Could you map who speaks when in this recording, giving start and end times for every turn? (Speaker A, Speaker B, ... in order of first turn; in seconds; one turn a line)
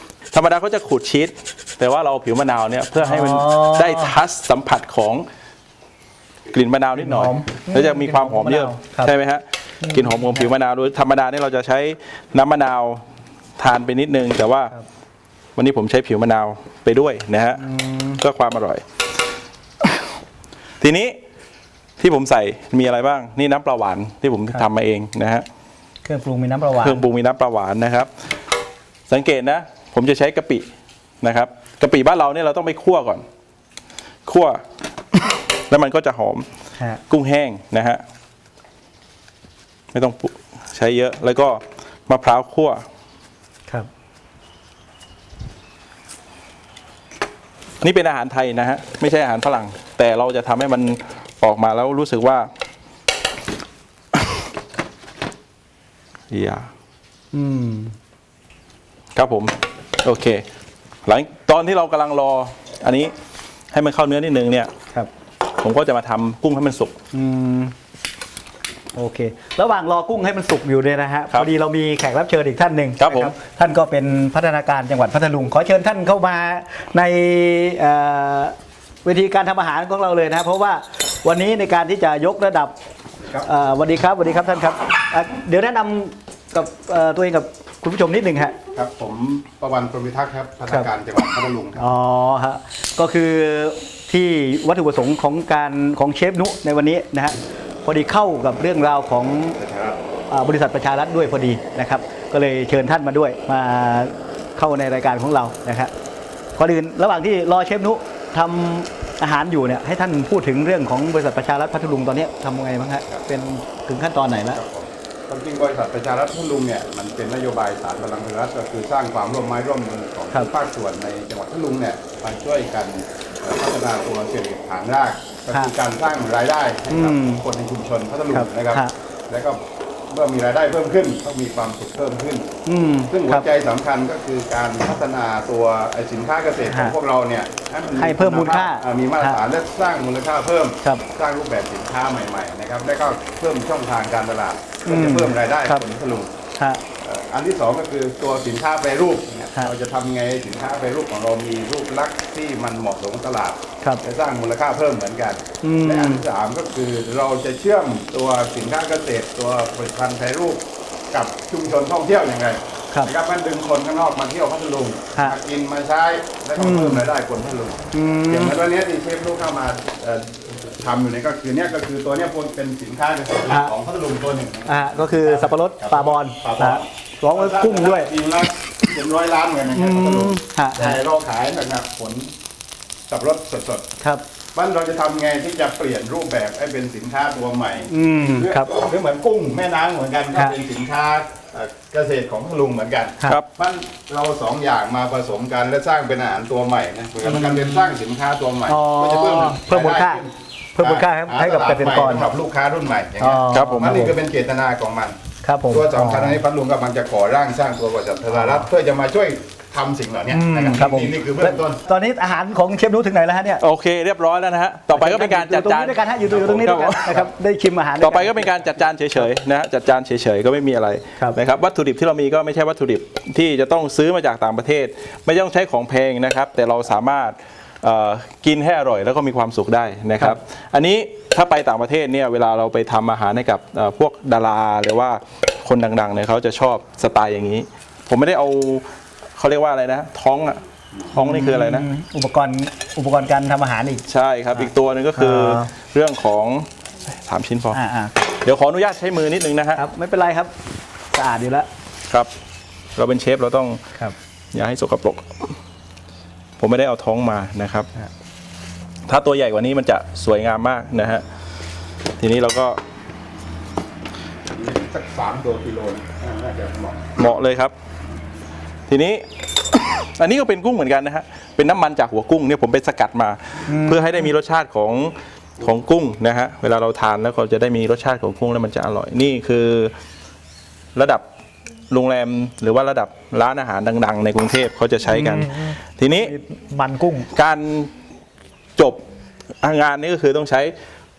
Speaker A: 0.3-5.2
Speaker B: 3.0-4.1
Speaker A: 6.5-13.0
Speaker B: 7.0-9.1
Speaker B: 9.8-10.4
Speaker A: 13.6-14.7
Speaker A: 15.6-17.6
Speaker B: 17.6-18.2
Speaker A: 18.2-18.8
Speaker A: 19.8-20.1
Speaker A: 20.8-21.2
Speaker A: 22.0-25.4
Speaker B: 26.0-27.0
Speaker A: 26.8-28.1
Speaker A: 29.1-30.7
Speaker A: 31.2-33.2
Speaker A: 34.2-36.5
Speaker A: 37.1-38.0
Speaker A: 39.9-42.8
Speaker A: 47.8-52.5
Speaker A: 56.3-56.7
Speaker B: 57.3-57.9
Speaker A: 59.1-60.4
Speaker A: 61.0-63.1
Speaker A: 63.7-64.7
Speaker A: 65.5-67.0
Speaker B: 67.1-67.7
Speaker B: 68.9-82.8
Speaker A: 73.0-73.3
Speaker B: 83.4-88.5
Speaker C: 88.7-91.9
Speaker B: 91.8-99.6
Speaker C: 99.6-100.0
Speaker B: 100.3-105.9
Speaker B: 106.6-114.6
Speaker C: 114.5-132.5
Speaker B: 126.9-127.4
Speaker B: 128.3-128.9
Speaker B: 132.7-133.5
Speaker C: 133.1-146.3
Speaker B: 136.7-136.9
Speaker B: 138.0-139.4
Speaker B: 144.8-145.8
Speaker B: 146.6-146.8
Speaker C: 147.0-182.3
Speaker B: 155.6-156.2
Speaker B: 166.6-167.1
Speaker B: 167.9-168.6
Speaker B: 173.5-173.7
Speaker B: 174.7-178.1
Speaker B: 179.7-181.0
Speaker C: 183.1-183.9
Speaker C: 184.5-205.2
Speaker B: 187.9-188.7
Speaker B: 197.3-197.9
Speaker B: 198.7-200.2
Speaker B: 200.8-202.2
Speaker B: 203.2-204.1
Speaker A: 203.5-204.1
Speaker B: 205.4-206.4
Speaker C: 205.7-211.8
Speaker B: 208.3-208.7
Speaker B: 210.3-213.6
Speaker A: 213.6-217.2
Speaker B: 214.9-219.2
Speaker C: 216.5-217.2
Speaker A: 218.0-238.8
Speaker A: 239.4-240.6
Speaker A: 241.1-241.9
Speaker B: 241.1-245.7
Speaker A: 244.1-249.8
Speaker B: 247.7-248.2
Speaker B: 249.8-250.5
Speaker B: 251.1-251.7
Speaker A: 252.9-253.8
Speaker A: 254.5-255.6
Speaker A: 256.6-257.9
Speaker A: 259.1-261.2
Speaker A: 262.2-262.8
Speaker C: 264.5-267.2
Speaker A: 267.2-267.7
Speaker A: 268.9-279.9
Speaker B: 273.7-274.3
Speaker A: 280.9-281.2
Speaker A: 281.9-286.3
Speaker B: 285.1-287.3
Speaker A: 287.3-287.9
Speaker A: 289.6-290.7